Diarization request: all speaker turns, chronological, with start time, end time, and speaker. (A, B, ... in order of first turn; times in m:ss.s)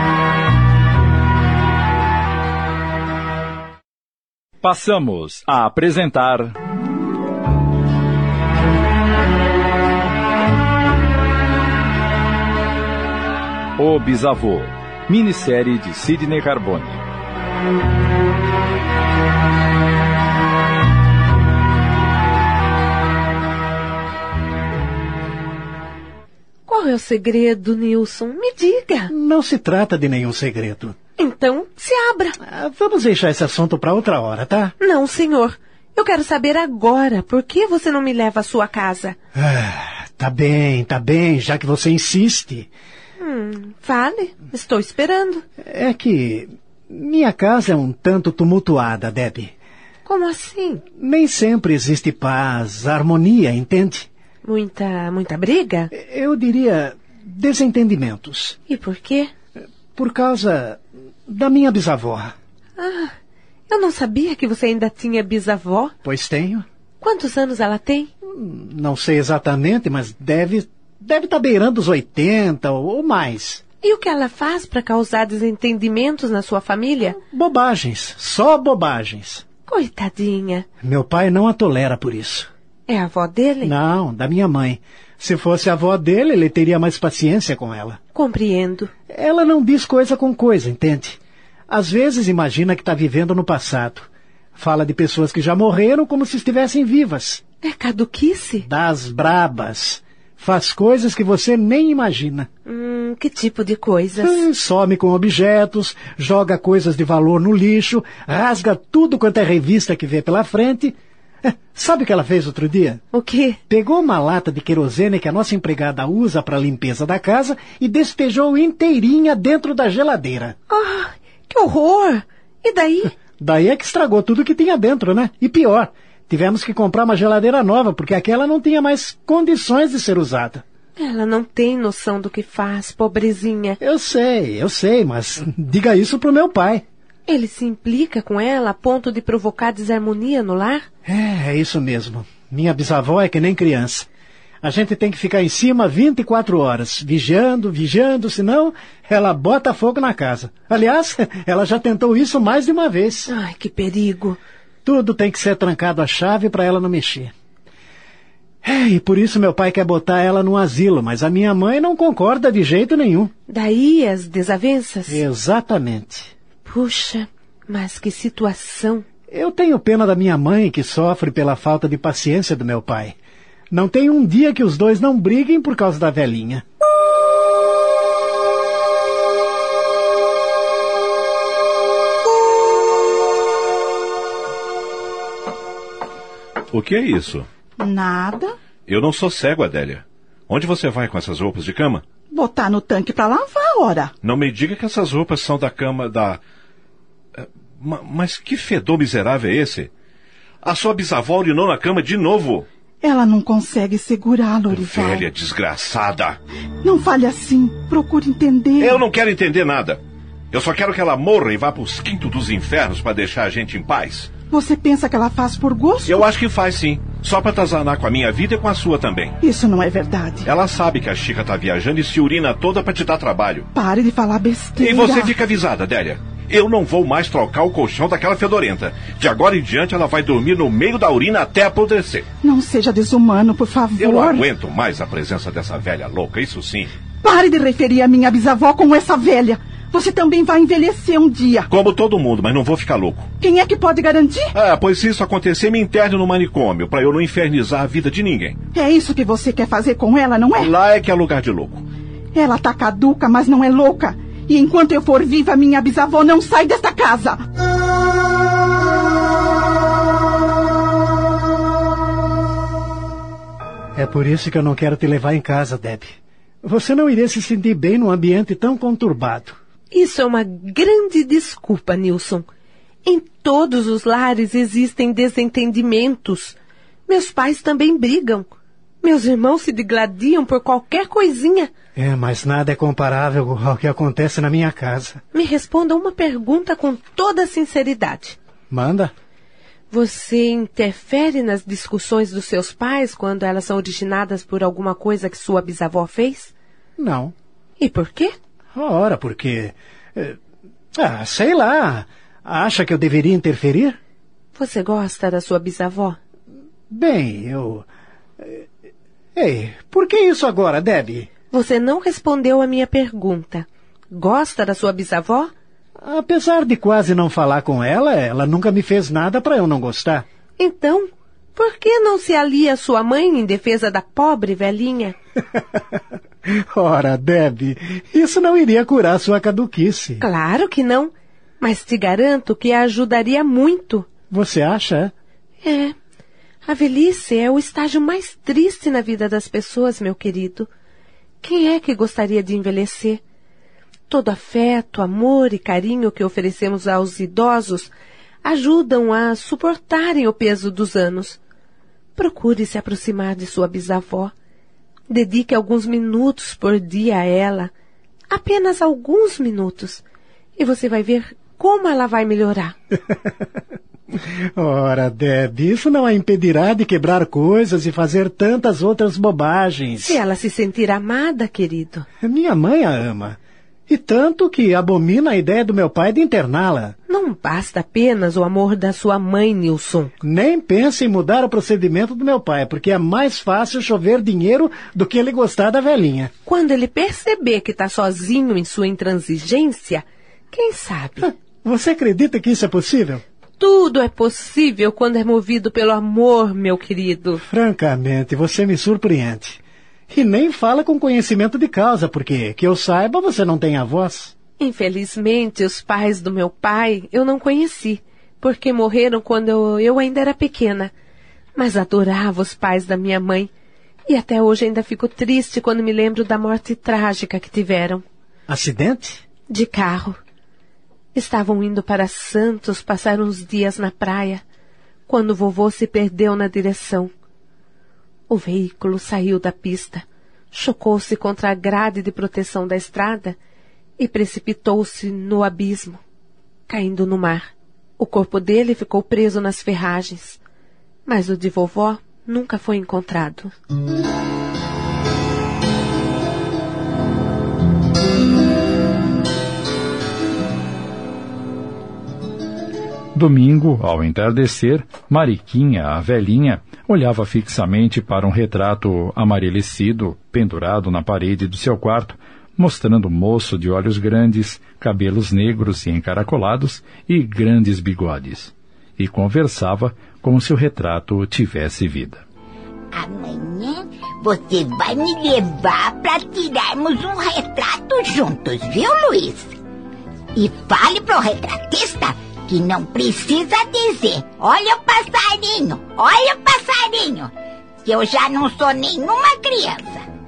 0:04.6-0:06.6 A
0:13.8-0:17.0 A
0:26.7-0:29.1 B
0:29.1-0:31.0 C
0:31.2-0:32.4 B
0:32.4-0:34.7 C
0:34.8-0:39.2 B
0:39.4-0:42.7 C
0:43.2-0:45.4 B
0:45.6-0:49.5 C
0:50.1-0:50.8 B
0:51.0-0:54.1 C
0:54.4-0:55.9 B
0:55.9-0:58.6 C
0:58.7-0:59.3 B
1:00.0-1:02.3 C
1:02.8-1:03.1 B
1:03.7-1:05.9 B
1:06.0-1:06.7 C
1:07.0-1:08.1 B
1:08.3-1:13.6 C
1:13.8-1:17.2 B
1:17.2-1:19.4 C
1:19.7-1:20.7 B
1:20.8-1:22.5 C
1:22.9-1:23.7 B
1:23.6-1:28.0 C
1:28.1-1:28.9 B
1:29.1-1:37.4 C
1:37.6-1:38.7 B
1:38.6-1:42.5 C
1:42.7-1:44.4 B
1:44.2-1:53.0 C
1:53.1-1:53.6 B
1:53.7-2:00.6 C
2:00.7-2:03.2 B
2:03.4-2:10.6 C
2:11.0-2:13.8 B
2:13.8-2:16.8 C
2:17.3-2:20.9 B
2:21.0-2:24.1 C
2:24.6-2:33.3 C
2:33.3-2:34.4 B
2:34.8-2:37.3 C
2:38.6-2:43.3 C
2:43.5-2:45.2 B
2:45.1-2:46.3 C
2:46.7-2:49.0 B
2:49.3-2:53.2 C
2:53.7-2:56.6 C
3:06.7-3:07.5 D
3:07.8-3:08.6 E
3:08.9-3:12.0 D
3:12.3-3:14.1 E
3:14.2-3:16.4 D
3:17.4-3:19.9 D
3:20.6-3:22.7 D
3:23.0-3:25.3 E
3:24.7-3:26.4 D
3:26.8-3:29.0 E
3:28.8-3:30.0 D
3:30.5-3:34.3 D
3:34.5-3:36.3 E
3:36.0-3:39.4 D
3:39.4-3:40.5 E
3:40.4-3:43.7 D
3:43.7-3:45.4 E
3:44.8-3:52.3 D
3:52.4-3:54.5 E
3:54.0-3:56.9 D
3:57.2-4:01.7 E
4:01.7-4:03.3 D
4:03.4-4:04.5 E
4:04.5-4:08.6 D
4:08.7-4:10.7 E
4:10.6-4:11.8 D
4:12.3-4:17.4 E
4:24.0-4:29.6 C
4:29.9-4:32.5 B
4:33.0-4:36.6 B
4:37.1-4:38.5 B
4:39.0-4:41.7 B
4:42.0-4:45.2 C
4:45.3-4:48.4 B
4:48.7-4:49.1 C
4:49.9-4:56.5 B
4:57.0-4:57.4 C
4:57.8-4:58.4 B
4:58.7-5:00.4 C
5:01.0-5:04.0 C
5:04.6-5:06.2 B
5:06.9-5:07.9 C
5:08.4-5:08.7 C
5:09.4-5:11.3 C
5:11.5-5:15.5 B
5:16.0-5:20.3 C
5:20.6-5:25.2 B
5:26.4-5:30.2 C
5:30.2-5:34.1 B
5:34.3-5:35.1 C
5:35.6-5:36.0 B
5:36.6-5:40.7 B
5:41.4-5:43.2 B
5:44.1-5:47.9 B
5:48.4-5:51.4 B
5:52.2-5:54.3 B
5:55.1-5:57.7 B
5:58.3-6:00.0 B
6:00.6-6:02.8 B
6:04.1-6:10.2 C
6:10.0-6:12.1 B
6:12.2-6:17.0 C
6:17.1-6:20.1 B
6:20.2-6:26.3 C
6:26.5-6:31.3 B
6:31.6-6:33.2 C
6:33.6-6:37.4 B
6:37.4-6:44.3 C
6:44.6-6:50.9 B
6:51.6-6:53.5 B
6:54.1-6:58.0 B
6:58.5-6:59.2 C
6:59.5-7:00.2 B
7:01.1-7:04.4 B
7:05.1-7:07.1 B
7:08.3-7:13.4 B
7:14.0-7:16.0 B
7:16.7-7:20.4 B
7:21.1-7:23.5 B
7:33.1-7:52.2 A
7:52.9-7:59.6 F
8:00.4-8:07.3 F
8:07.8-8:10.0 F